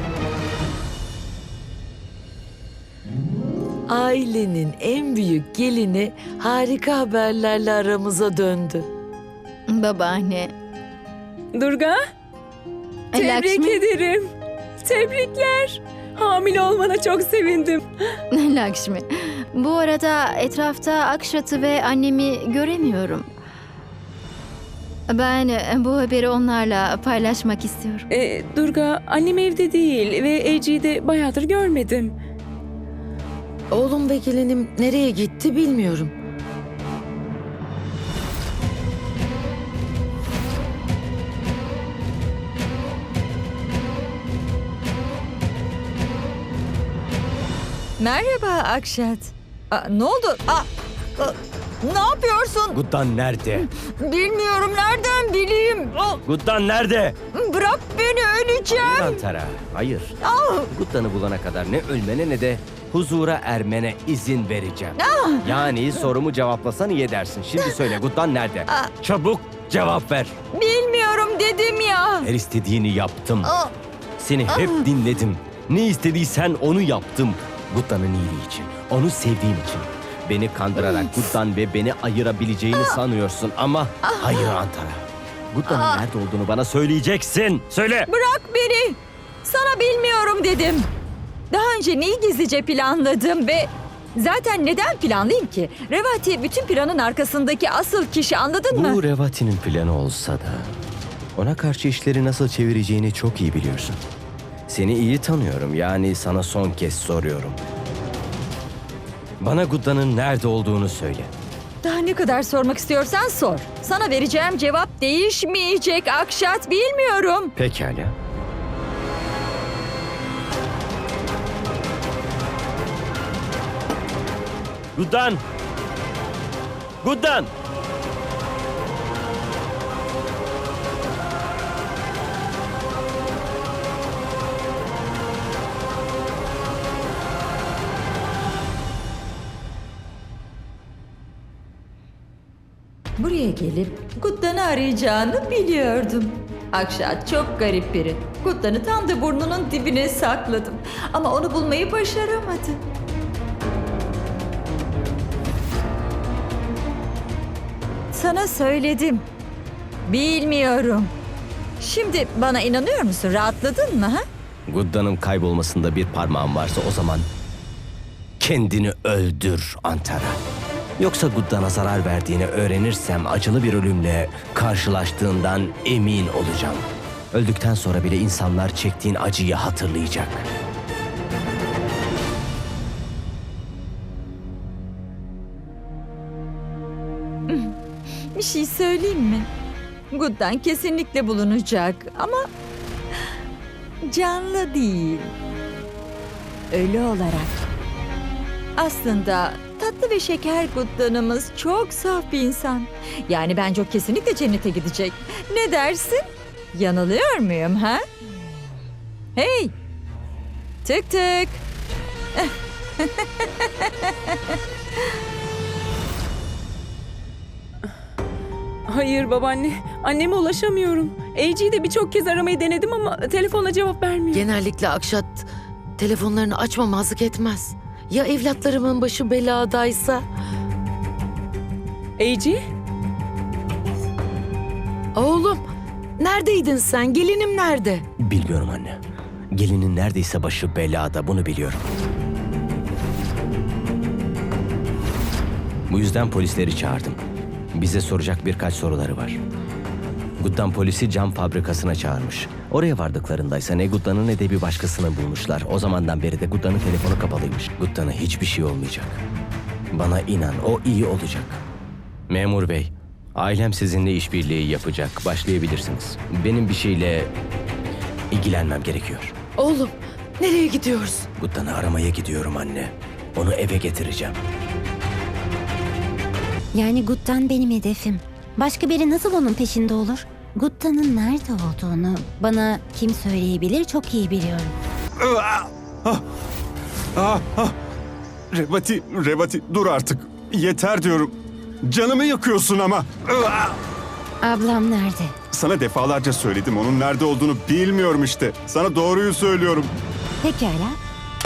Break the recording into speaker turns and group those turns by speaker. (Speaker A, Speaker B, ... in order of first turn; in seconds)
Speaker A: 3.9-8.8, 33.9-36.1, 224.4-225.0, 226.0-227.5, 228.1-230.2, 235.2-235.6, 236.2-238.0, 269.6-271.2
Speaker B: 9.7-10.5, 13.1-13.8, 18.3-23.3, 25.1-28.1
Speaker C: 11.5-12.0, 13.1-14.3, 14.8-17.8, 28.1-32.1, 218.9-224.5, 232.2-232.6
Speaker D: 48.0-52.8, 53.5-56.2, 57.3-59.2, 60.2-60.7, 65.0-65.7, 70.5-72.3, 73.4-73.7, 74.5-74.8, 80.8-81.2, 82.7-83.0, 84.0-84.6, 85.7-86.0, 88.1-90.9, 91.5-99.0, 111.8-117.5, 143.2-152.8, 158.1-159.2, 160.0-161.1, 161.8-164.2, 187.5-187.7, 188.3-189.5, 190.1-192.4, 194.0-195.3, 196.7-197.6, 198.8-208.0, 209.3-209.7, 210.8-211.6, 213.0-214.4
Speaker E: 52.7-53.7, 56.2-57.1, 58.7-60.2, 60.7-70.3, 72.2-73.5, 74.2-88.1, 98.7-100.7, 101.3-104.0, 104.7-107.6, 109.4-111.3, 117.6-118.1, 125.0-125.4, 127.0-127.5, 164.7-167.3, 168.4-170.4, 171.0-180.4, 238.2-239.0, 239.6-241.8, 245.9-247.2, 247.7-249.4, 250.4-259.2, 259.9-261.6, 262.3-267.3, 268.3-269.3, 271.4-274.4
Speaker F: 276.7-284.7, 294.4-295.3, 300.4-301.0
Speaker G: 285.2-286.2, 287.1-287.7, 288.5-293.8, 295.5-299.9